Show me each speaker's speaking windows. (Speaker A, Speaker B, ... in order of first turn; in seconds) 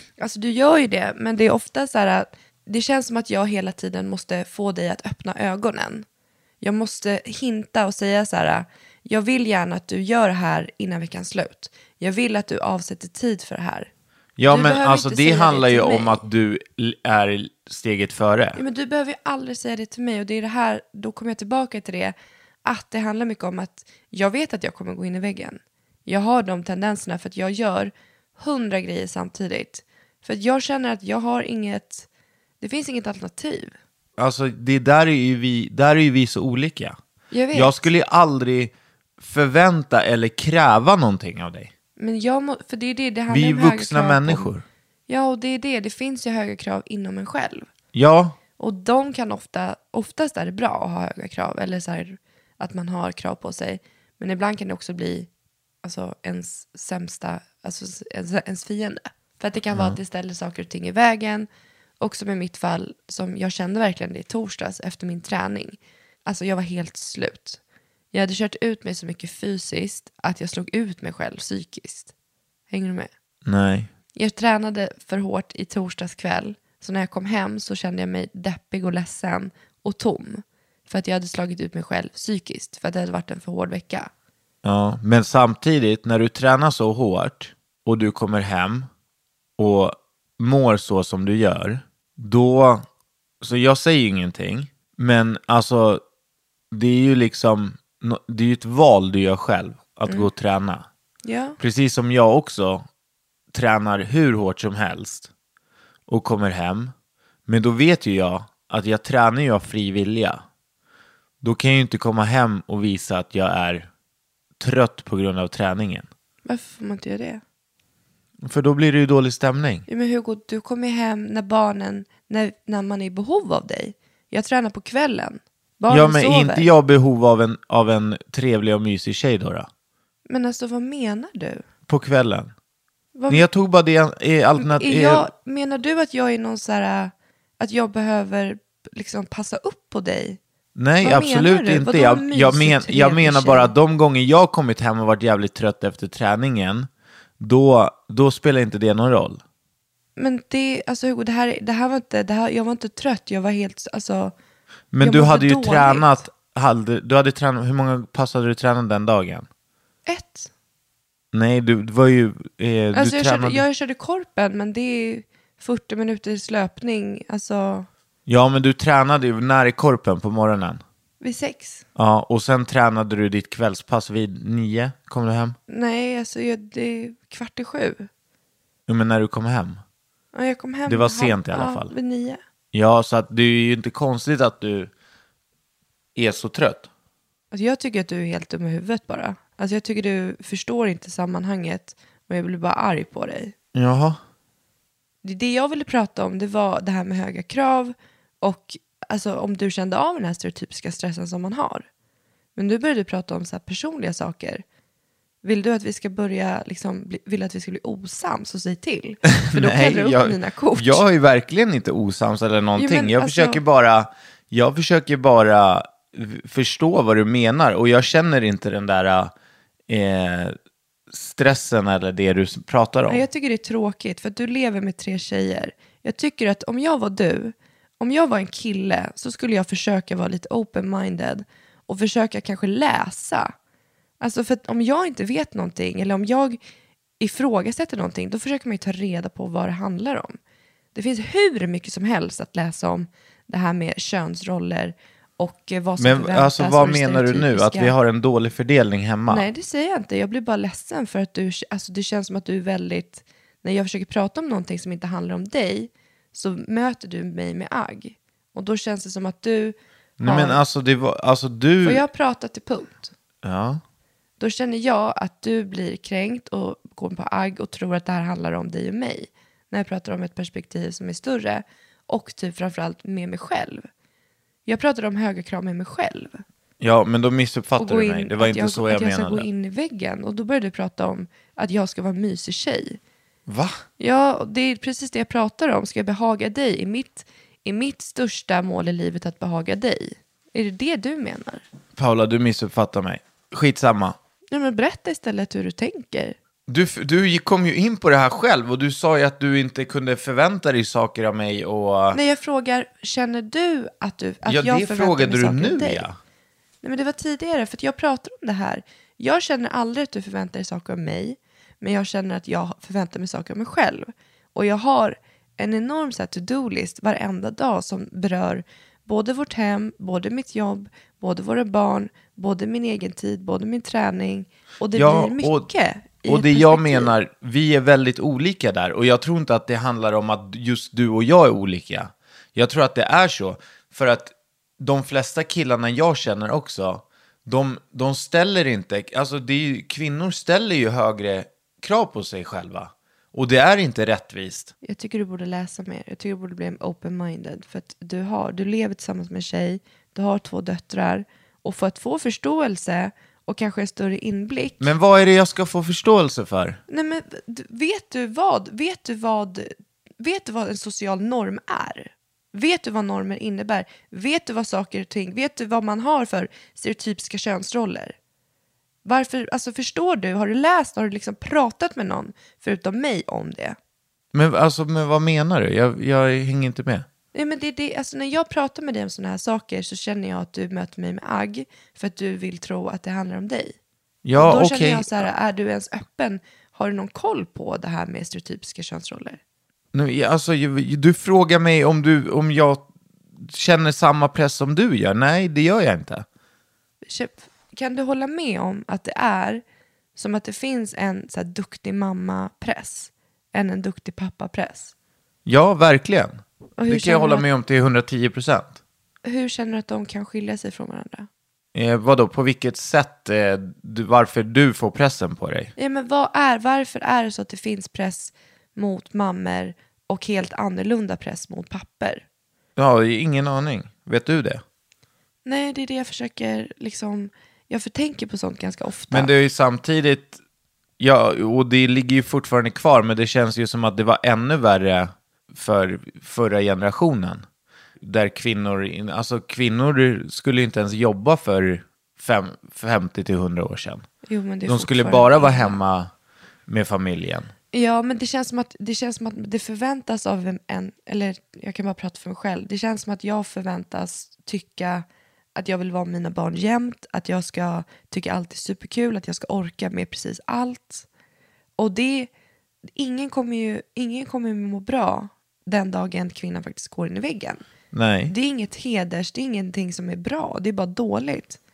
Speaker A: 0.2-6.1, 6.6-13.9, 14.5-16.2, 18.6-32.1, 32.6-33.8, 37.3-37.7, 42.0-44.5, 45.1-47.7, 48.6-55.3, 55.8-61.5, 62.0-67.6, 68.1-72.1, 72.7-73.1, 74.1-84.1, 101.2-101.6, 116.5-117.4, 119.9-126.7, 130.3-131.6, 133.2-133.5, 134.6-140.4, 141.0-143.7, 150.2-154.3, 155.0-156.2, 160.1-160.5, 162.9-167.9, 171.2-171.8, 175.7-178.1, 180.3-182.4, 187.5-193.5, 195.2-201.9, 202.6-204.6, 205.4-211.0, 212.8-213.6, 223.1-233.5, 234.2-236.6, 237.2-240.4, 240.9-247.9, 249.3-260.6, 261.8-263.1, 264.4-273.9, 274.7-276.4, 277.8-283.0, 284.0-291.6, 294.5-296.4, 302.1-306.1, 306.8-327.1, 344.8-354.9, 356.9-368.2, 369.1-373.8, 377.3-383.8, 384.4-389.4, 397.1-399.6, 400.2-404.9, 406.8-407.5, 409.2-411.3, 415.8-422.2, 425.4-429.3, 444.3-445.8, 447.7-461.1, 461.8-462.3, 463.0-467.6, 468.3-471.6
Speaker B: 14.4-18.6, 34.2-37.0, 37.5-41.7, 43.3-44.6, 47.9-48.4, 59.7-60.0, 73.5-73.9, 84.6-88.9, 89.6-92.8, 93.4-96.0, 96.7-100.9, 101.6-102.8, 103.5-105.3, 106.1-106.9, 107.5-110.4, 111.4-113.9, 114.6-116.1, 118.4-119.9, 125.9-129.7, 131.9-132.5, 133.3-135.3, 140.8-146.9, 147.4-149.4, 154.9-159.5, 161.3-163.6, 168.3-170.8, 172.0-175.6, 178.9-179.8, 180.9-181.9, 182.7-184.9, 186.2-186.9, 193.7-194.2, 209.3-219.3, 219.9-220.6, 221.1-223.2, 246.0-249.5, 260.2-262.0, 263.4-263.8, 276.8-279.5, 283.5-283.8, 292.0-294.2, 296.7-302.2, 304.5-306.2, 324.9-325.7, 326.2-344.7, 354.8-356.8, 374.3-377.1, 384.2-385.3, 389.9-392.9, 393.4-396.3, 405.5-408.8, 411.7-415.7, 422.8-424.6, 429.1-430.4, 431.0-437.4, 438.0-444.1, 444.7-446.1, 446.7-447.5, 467.9-468.3